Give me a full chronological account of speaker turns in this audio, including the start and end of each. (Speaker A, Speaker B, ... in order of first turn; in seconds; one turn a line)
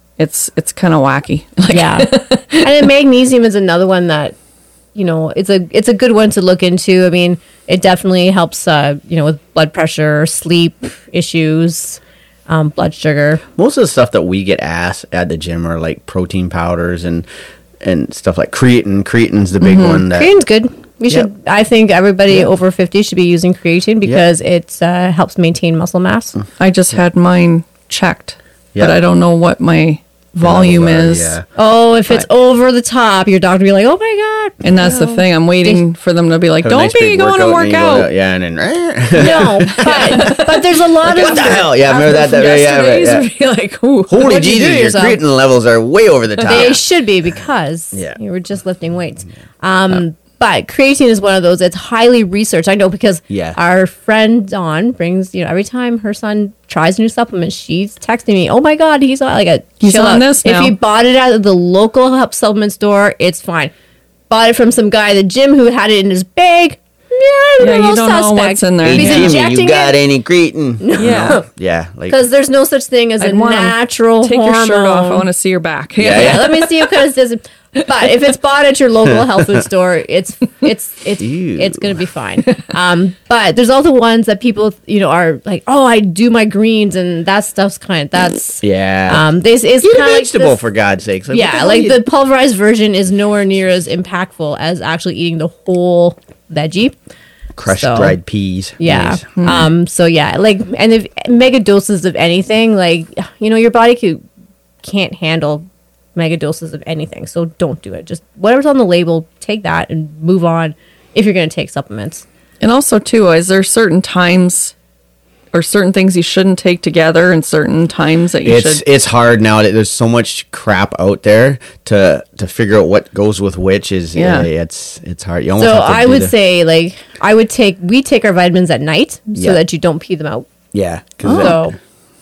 Speaker A: 0.2-2.8
Speaker B: 1.7-4.3
Speaker B: 4.9-13.4
Speaker C: 13.6-17.3
Speaker C: 17.8-20.3
Speaker A: 19.6-20.1
Speaker B: 20.1-26.4
Speaker A: 26.6-31.4
Speaker C: 30.4-31.4
Speaker B: 31.6-35.8
Speaker A: 34.6-38.1
Speaker C: 36.6-40.4
Speaker B: 39.1-42.3
Speaker A: 39.6-45.0
Speaker C: 41.1-43.3
Speaker C: 44.1-46.8
Speaker B: 44.2-45.2
Speaker A: 46.4-46.8
Speaker B: 46.5-63.7
Speaker C: 53.3-53.6
Speaker A: 59.8-60.7
Speaker B: 64.3-70.0
Speaker A: 67.6-69.3
Speaker C: 68.8-72.2
Speaker B: 70.8-71.4
Speaker A: 71.0-71.4
Speaker B: 72.1-75.3
Speaker A: 73.2-77.1
Speaker C: 76.0-76.5
Speaker B: 76.1-90.6
Speaker C: 81.2-82.0
Speaker C: 88.6-89.3
Speaker C: 89.8-92.0
Speaker B: 91.3-96.9
Speaker C: 97.5-99.2
Speaker B: 97.7-98.2
Speaker B: 98.8-104.2
Speaker A: 99.3-99.7
Speaker B: 104.8-112.2
Speaker A: 112.6-114.7
Speaker A: 115.5-118.8
Speaker C: 118.4-126.3
Speaker A: 124.1-124.5
Speaker B: 125.6-130.5
Speaker C: 129.3-129.6
Speaker C: 130.7-131.7
Speaker A: 131.2-131.6
Speaker B: 131.2-131.8